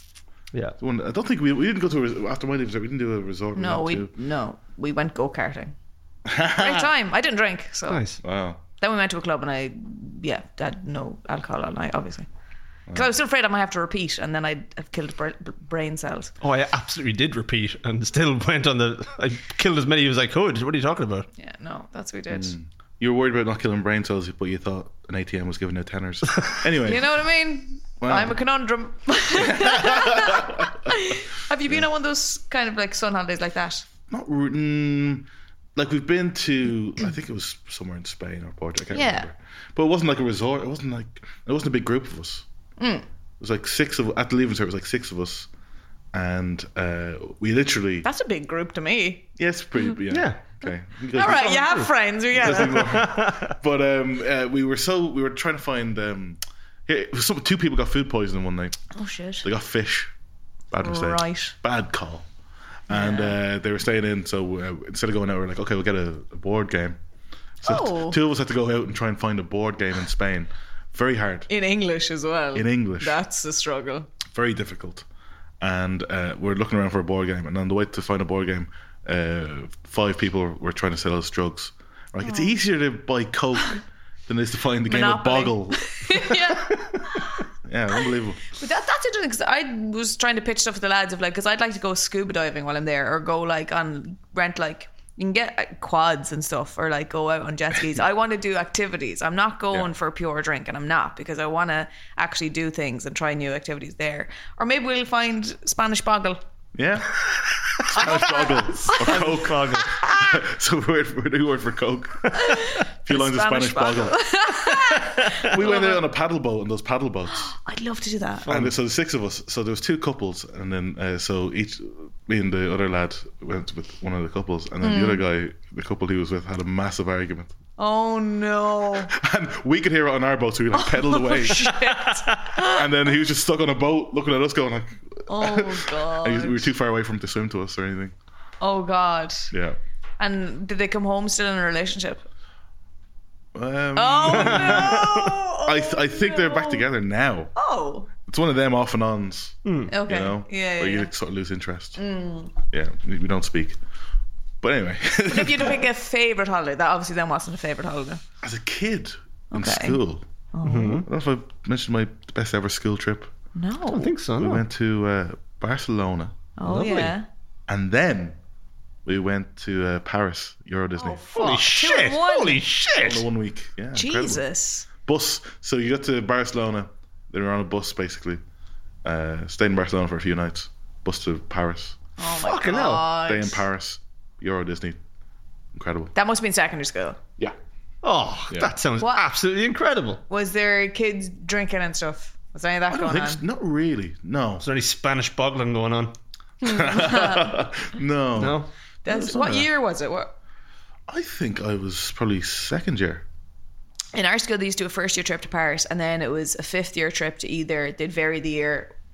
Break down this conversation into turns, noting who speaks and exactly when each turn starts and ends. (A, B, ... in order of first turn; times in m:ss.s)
0:00.8-0:04.1 A
0:03.6-0:05.8 B
0:06.3-0:06.9 A
0:06.5-0:08.1 B
0:07.9-0:08.2 C
0:08.2-0:08.6 A
0:08.8-0:12.3 B
0:12.9-0:16.3 B
0:16.4-0:21.3 C
0:21.4-0:22.6 B
0:22.3-0:27.1 A
0:26.8-0:33.9 B
0:28.0-0:28.4 A
0:29.4-0:30.9 A
0:34.1-0:42.4 A
0:38.9-0:39.3 B
0:42.8-0:43.0 B
0:43.4-0:45.5 A
0:46.1-0:48.1 A
0:48.0-0:49.3 B
0:49.4-0:51.8 A
0:50.1-0:50.4 C
0:51.1-0:53.0 B
0:51.3-0:53.6 C
0:52.3-0:58.8 A
0:58.9-0:59.4 B
0:59.4-1:00.1 A
1:00.7-1:02.3 A
1:00.8-1:01.6 B
1:02.9-1:03.4 B
1:02.9-1:07.0 A
1:07.6-1:08.2 B
1:07.6-1:11.5 A
1:11.5-1:14.1 B
1:12.6-1:13.2 A
1:14.3-1:15.0 A
1:15.6-1:26.3 A
1:22.2-1:22.6 B
1:24.9-1:27.4 B
1:27.6-1:28.4 A
1:28.5-1:46.4 B
1:46.8-1:47.1 A
1:47.8-1:50.0 C
1:47.9-1:54.2 A
1:47.9-1:50.3 B
1:52.3-1:56.0 B
1:55.3-1:57.5 A
1:57.3-1:58.5 B
1:58.4-1:58.7 C
1:58.5-2:07.5 A
2:04.8-2:05.2 B
2:07.8-2:09.1 B
2:09.1-2:11.8 A
2:10.7-2:13.2 B
2:12.1-2:12.4 C
2:12.6-2:18.1 A
2:15.3-2:16.7 B
2:18.6-2:19.5 B
2:19.5-2:19.8 A
2:20.2-2:22.2 B
2:23.5-2:27.5 A
2:24.0-2:26.8 B
2:24.3-2:25.3 C
2:27.6-2:28.1 B
2:28.2-2:32.0 A
2:29.6-2:29.9 C
2:29.9-2:31.1 B
2:32.0-2:32.5 B
2:32.7-2:33.8 A
2:34.6-2:35.8 A
2:35.3-2:38.2 B
2:38.4-2:40.2 A
2:39.5-2:40.0 B
2:40.5-2:41.0 B
2:40.6-2:41.1 C
2:41.0-2:43.3 A
2:43.6-2:44.1 B
2:43.9-2:44.6 C
2:44.4-2:46.4 A
2:46.6-2:47.3 B
2:46.7-2:47.1 C
2:47.7-2:48.4 A
2:49.0-2:51.2 A
2:51.0-2:52.6 B
2:51.3-2:53.3 C
2:52.9-2:54.4 A
2:54.0-2:54.9 B
2:55.0-2:58.4 A
2:59.0-3:02.0 A
3:02.2-3:03.6 B
3:02.4-3:03.1 C
3:03.2-3:05.0 A
3:05.8-3:06.1 A
3:06.2-3:07.2 B
3:08.0-3:10.2 C
3:09.0-3:09.3 B
3:10.3-3:13.4 B
3:12.9-3:14.6 A
3:14.6-3:16.1 C
3:16.6-3:17.6 B
3:16.6-3:19.7 A
3:18.4-3:18.7 C
3:19.0-3:20.3 B
3:21.1-3:23.2 A
3:24.1-3:28.9 B